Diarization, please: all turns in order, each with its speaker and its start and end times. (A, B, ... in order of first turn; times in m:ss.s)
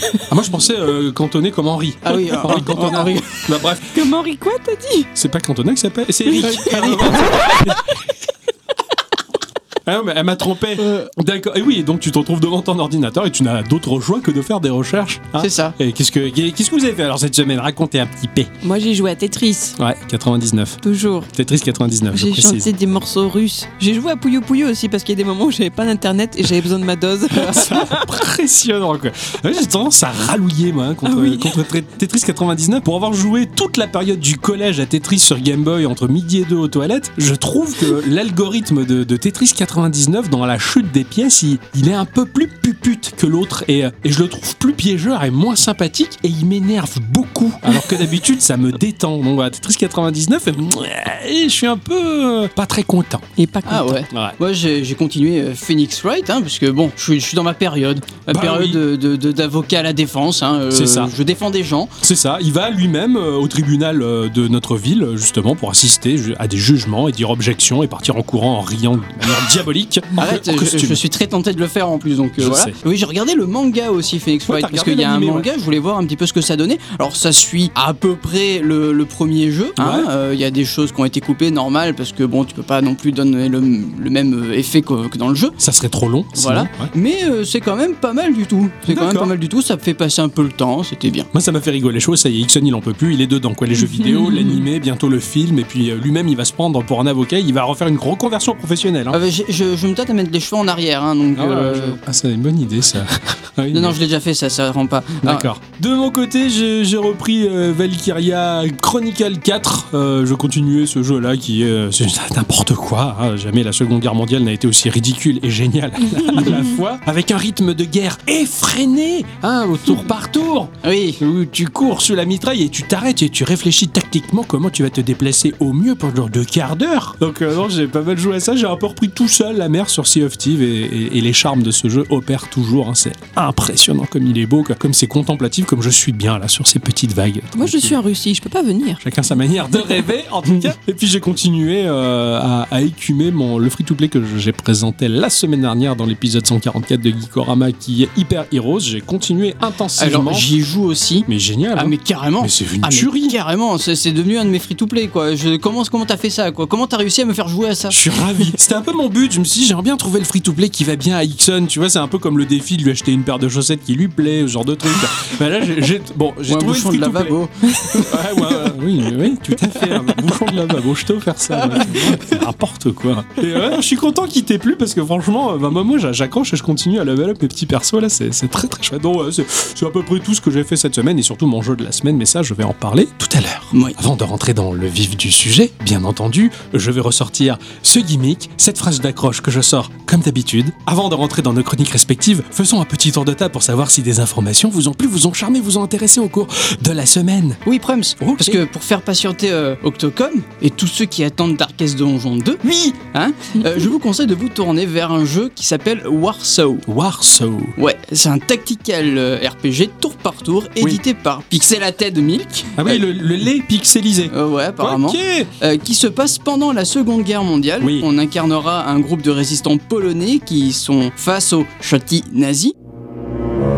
0:00.3-0:04.1 A
0:02.0-0:03.5 B
0:03.9-0:05.1 C
0:05.2-0:07.9 A
0:06.4-0:07.6 B
0:09.8-0:18.5 A
0:15.4-0:15.8 B
0:18.6-0:19.8 C
0:19.8-0:20.8 A
0:20.8-0:21.3 C
0:21.3-0:22.7 A
0:22.1-0:28.1 C
0:27.3-0:53.2 A
0:31.0-0:31.6 C
0:53.4-0:54.0 C
0:53.7-1:01.9 B
0:54.1-0:54.4 A
0:58.3-0:58.8 A
1:00.7-1:01.1 A
1:02.0-1:11.0 A
1:10.2-1:25.6 B
1:12.4-1:12.8 A
1:14.5-1:15.5 A
1:19.8-1:20.1 A
1:25.6-1:26.9 A
1:26.4-1:31.3 B
1:28.9-1:29.3 A
1:31.3-1:39.2 A
1:33.8-1:34.6 C
1:39.1-1:42.0 B
1:41.4-1:44.0 A
1:43.7-1:45.5 B
1:45.2-2:18.0 A
2:00.8-2:01.2 B
2:17.6-2:19.0 C
2:19.0-2:30.5 A
2:30.0-2:38.0 B
2:31.3-2:33.4 A
2:37.9-3:17.6 A
2:46.5-2:48.6 B
3:17.7-3:26.9 B
3:18.2-3:18.6 A
3:26.9-3:27.8 A
3:27.8-3:33.0 B
3:32.8-3:35.5 A
3:34.3-3:42.8 B
3:37.8-3:38.1 A